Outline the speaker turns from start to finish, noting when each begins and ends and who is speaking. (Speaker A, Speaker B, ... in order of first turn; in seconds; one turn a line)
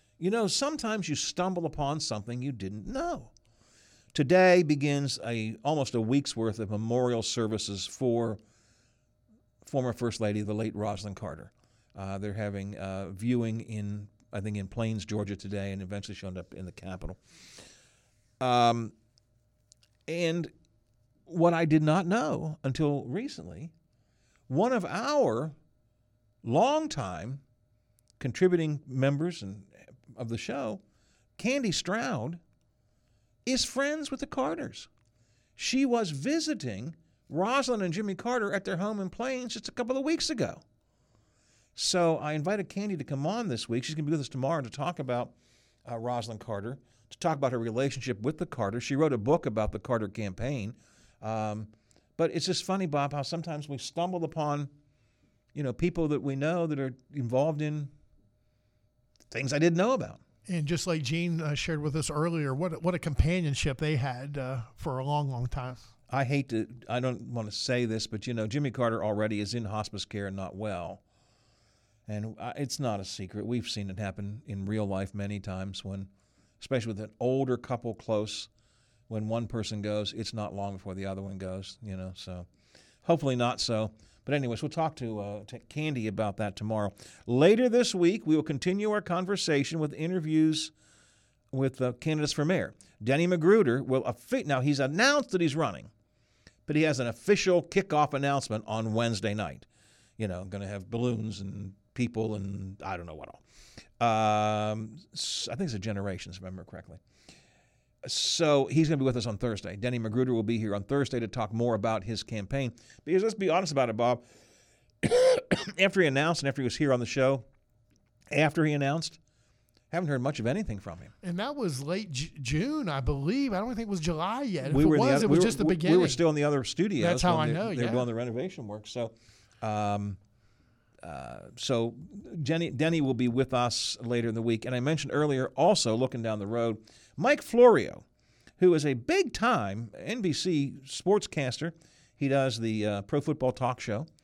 Speaker A: 0.2-3.3
Speaker A: 4.1-8.4
Speaker A: 9.6-17.2
Speaker A: 18.4-18.9
Speaker A: 20.1-20.5
Speaker A: 21.3-23.7
Speaker A: 24.5-25.6
Speaker A: 26.4-27.4
Speaker A: 28.2-30.8
Speaker A: 31.4-32.4
Speaker A: 33.5-34.9
Speaker A: 35.6-40.6
Speaker A: 41.8-45.3
Speaker A: 45.8-54.7
Speaker A: 55.5-57.9
Speaker A: 59.3-60.2
Speaker B: 60.5-65.9
Speaker A: 66.1-71.0
Speaker A: 72.1-76.1
Speaker A: 76.6-78.5
Speaker A: 79.1-82.5
Speaker A: 83.0-90.7
Speaker A: 91.5-95.9
Speaker A: 96.7-99.7
Speaker A: 100.2-103.4
Speaker A: 104.0-107.0
Speaker A: 108.0-114.2
Speaker A: 115.0-117.5
Speaker A: 118.3-119.2
Speaker A: 119.9-121.1
Speaker B: 121.2-126.2
Speaker A: 124.6-130.2
Speaker B: 127.0-128.1
Speaker A: 131.0-138.0
Speaker A: 138.6-144.1